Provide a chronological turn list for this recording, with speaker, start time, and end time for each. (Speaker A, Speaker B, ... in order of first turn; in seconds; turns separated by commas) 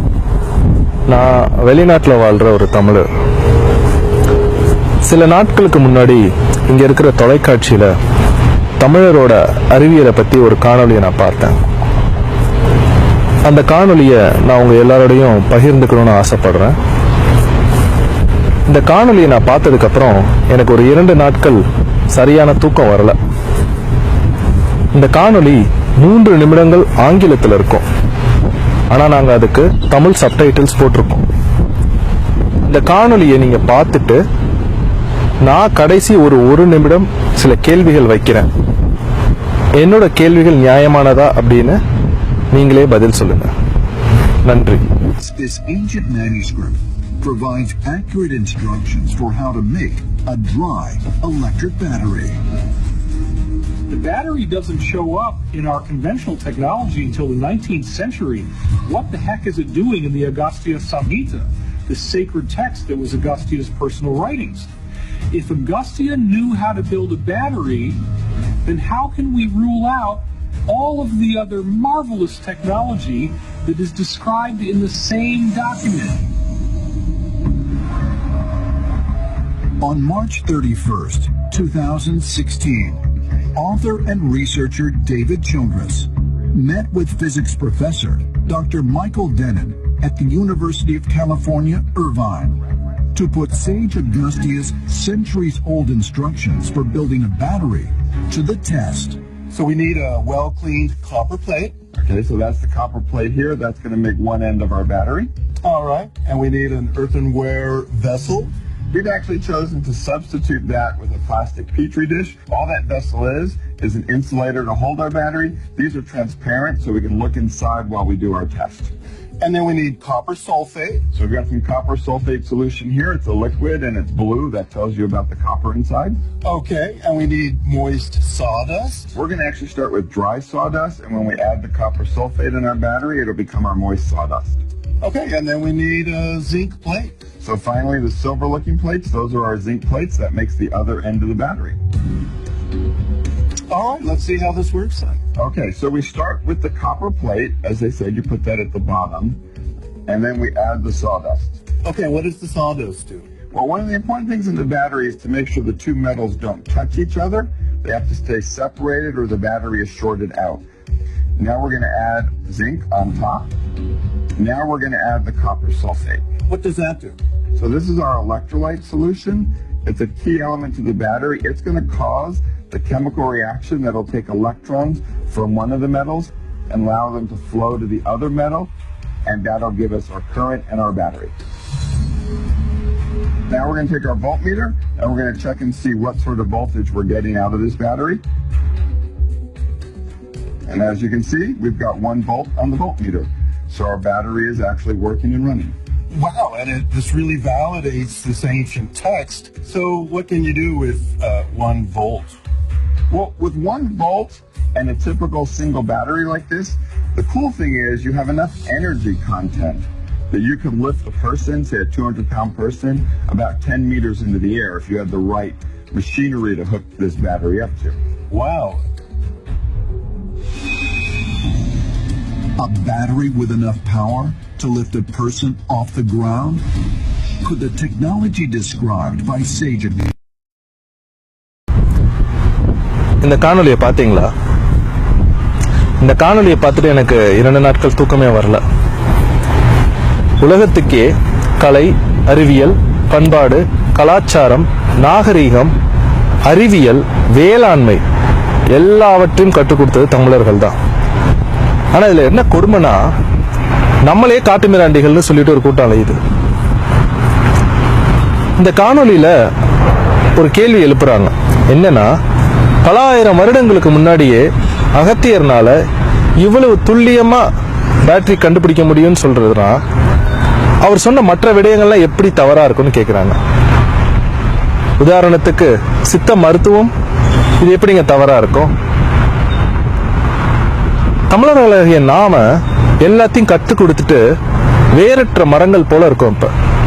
Speaker A: 1.1-3.1, Speaker A: 5.0-7.9, Speaker A: 8.8-11.6, Speaker A: 13.4-16.8, Speaker A: 18.7-23.2, Speaker A: 24.9-27.9, Speaker A: 28.9-31.2, Speaker A: 32.7-34.2, Speaker A: 35.4-38.5, Speaker A: 39.8-41.8, Speaker A: 42.5-43.5, Speaker A: 44.4-44.8, Speaker B: 45.2-52.4, Speaker C: 53.9-64.7, Speaker C: 65.3-68.0, Speaker C: 68.6-76.3, Speaker B: 79.8-99.2, Speaker D: 99.5-101.8, Speaker E: 101.9-105.3, Speaker D: 105.6-108.5, Speaker E: 108.9-118.9, Speaker D: 119.4-121.1, Speaker E: 121.1-126.2, Speaker D: 126.4-129.1, Speaker E: 129.1-134.6, Speaker D: 135.0-137.2, Speaker E: 137.4-141.8, Speaker D: 143.7-145.2, Speaker E: 145.4-149.4, Speaker E: 150.1-151.6, Speaker D: 151.8-153.3, Speaker E: 153.5-160.6, Speaker E: 161.4-163.5, Speaker E: 164.4-166.3, Speaker D: 166.5-167.2, Speaker E: 167.6-178.7, Speaker E: 179.2-181.3, Speaker E: 183.5-188.2, Speaker E: 190.7-195.8, Speaker D: 196.1-202.4, Speaker E: 203.1-218.0, Speaker D: 218.3-218.8, Speaker B: 222.6-226.7, Speaker B: 227.4-230.1, Speaker A: 233.2-234.3, Speaker A: 236.0-238.6, Speaker A: 240.4-245.8, Speaker A: 246.4-248.0, Speaker A: 248.7-250.8, Speaker A: 251.9-253.1, Speaker A: 254.0-256.2, Speaker A: 258.6-259.3, Speaker A: 260.4-262.1, Speaker A: 262.8-265.8, Speaker A: 266.4-267.5, Speaker A: 268.0-269.8, Speaker A: 270.8-273.4, Speaker A: 275.0-276.9, Speaker A: 277.6-278.7, Speaker A: 281.3-282.4, Speaker A: 283.0-284.2, Speaker A: 284.9-286.5